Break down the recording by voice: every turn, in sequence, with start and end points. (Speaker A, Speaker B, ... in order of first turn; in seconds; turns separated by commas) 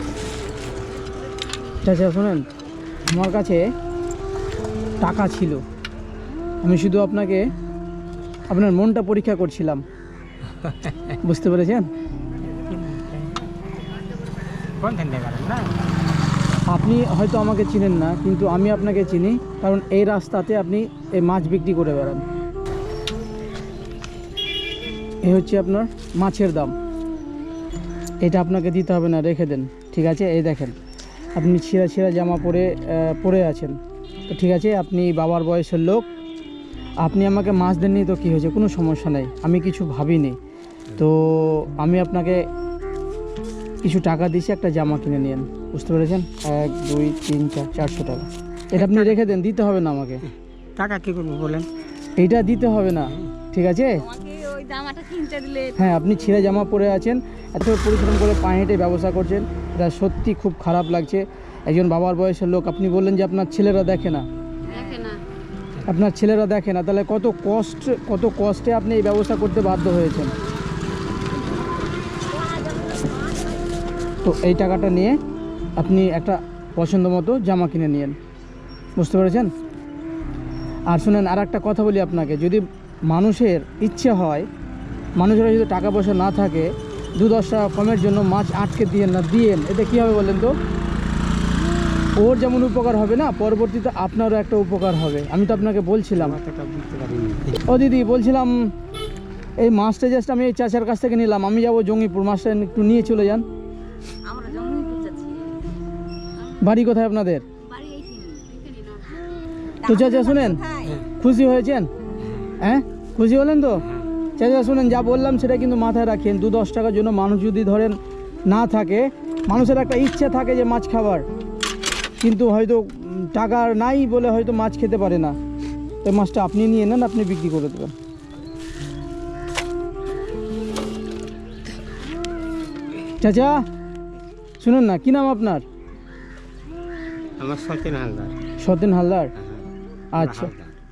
Speaker A: 1.8-2.4, Speaker A: 3.1-3.6, Speaker A: 5.0-5.6, Speaker A: 6.6-7.5, Speaker A: 8.5-9.8, Speaker B: 10.5-11.2, Speaker A: 11.2-11.9, Speaker B: 12.4-13.5, Speaker B: 14.8-15.7, Speaker A: 16.7-22.2, Speaker A: 25.2-26.7, Speaker A: 28.2-30.8, Speaker A: 31.3-33.8, Speaker A: 34.3-36.1, Speaker A: 37.0-40.4, Speaker A: 41.0-42.5, Speaker A: 43.8-50.2, Speaker B: 48.7-49.4, Speaker B: 50.3-51.7, Speaker A: 52.2-54.0, Speaker B: 53.0-53.3, Speaker C: 53.9-56.0, Speaker A: 55.8-64.2, Speaker B: 64.7-65.0, Speaker C: 64.7-65.2, Speaker A: 65.8-70.3, Speaker C: 72.3-73.6, Speaker A: 74.2-75.2, Speaker A: 75.8-78.2, Speaker A: 79.0-79.5, Speaker A: 80.9-84.5, Speaker A: 85.2-90.5, Speaker A: 92.2-96.4, Speaker B: 96.1-97.7, Speaker A: 97.7-98.7, Speaker A: 99.6-103.4, Speaker C: 104.2-105.6, Speaker C: 106.3-106.7, Speaker A: 106.6-107.4, Speaker C: 107.6-109.1, Speaker C: 109.8-111.0, Speaker A: 109.8-110.6, Speaker A: 111.2-111.9, Speaker B: 112.2-112.5, Speaker A: 112.6-113.8, Speaker B: 113.8-114.1, Speaker A: 114.4-118.0, Speaker A: 118.5-121.2, Speaker A: 122.2-125.3, Speaker A: 126.0-127.9, Speaker A: 133.2-133.6, Speaker A: 134.6-135.6, Speaker B: 137.4-138.4, Speaker A: 138.6-139.3, Speaker B: 139.3-140.8, Speaker A: 140.2-140.5